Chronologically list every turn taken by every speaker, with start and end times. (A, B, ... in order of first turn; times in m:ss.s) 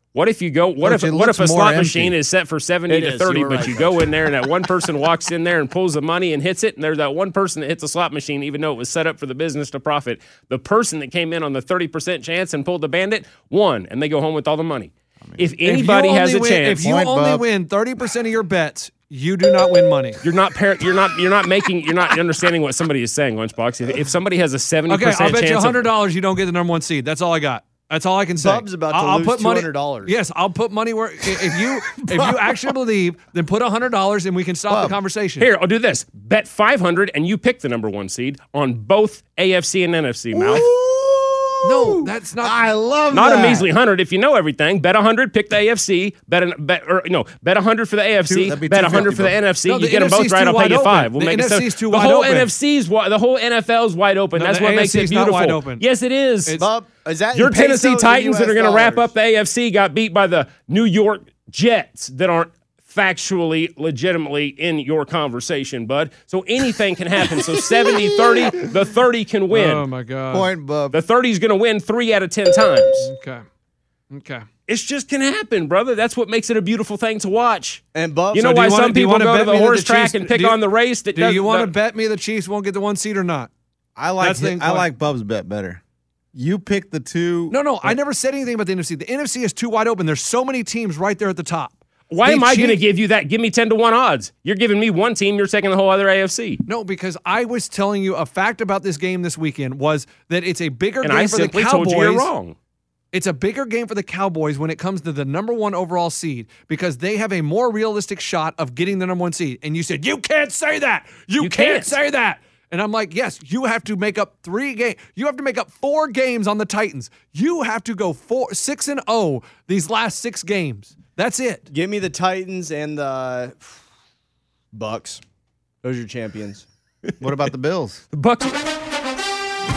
0:00.1-0:16.9 A
0:00.8-0:02.2 B
0:02.9-0:04.2 C
0:15.2-0:15.5 B
0:15.6-0:20.2 D
0:16.8-0:17.5 B
0:20.2-0:25.9 A
0:24.9-0:35.5 D
0:28.4-0:30.2 C
0:34.7-0:35.0 B
0:35.4-0:40.7 A
0:40.3-0:43.7 B
0:41.6-0:42.6 D
0:43.1-0:56.6 A
0:48.3-0:49.4 B
0:49.7-0:52.5 D
0:54.4-0:55.8 D
0:56.6-0:59.1 C
0:57.3-1:09.9 A
1:07.3-1:08.5 B
1:09.5-1:10.5 D
1:10.3-1:11.0 B
1:10.9-1:13.1 A
1:13.0-1:13.4 D
1:14.1-1:14.5 D
1:14.7-1:17.8 A
1:17.9-1:18.7 C
1:18.3-1:21.7 A
1:18.5-1:20.6 D
1:19.4-1:20.0 C
1:21.1-1:23.5 D
1:24.0-1:25.8 B
1:24.2-1:24.9 D
1:26.3-1:28.0 B
1:27.5-1:32.8 D
1:32.1-1:36.6 A
1:36.6-1:42.3 D
1:41.0-1:42.6 A
1:43.1-2:01.7 D
1:51.4-1:52.0 A
2:01.7-2:03.8 C
2:04.7-2:05.2 C
2:05.8-2:06.7 C
2:07.1-2:07.5 A
2:07.2-2:08.0 B
2:08.1-2:08.6 A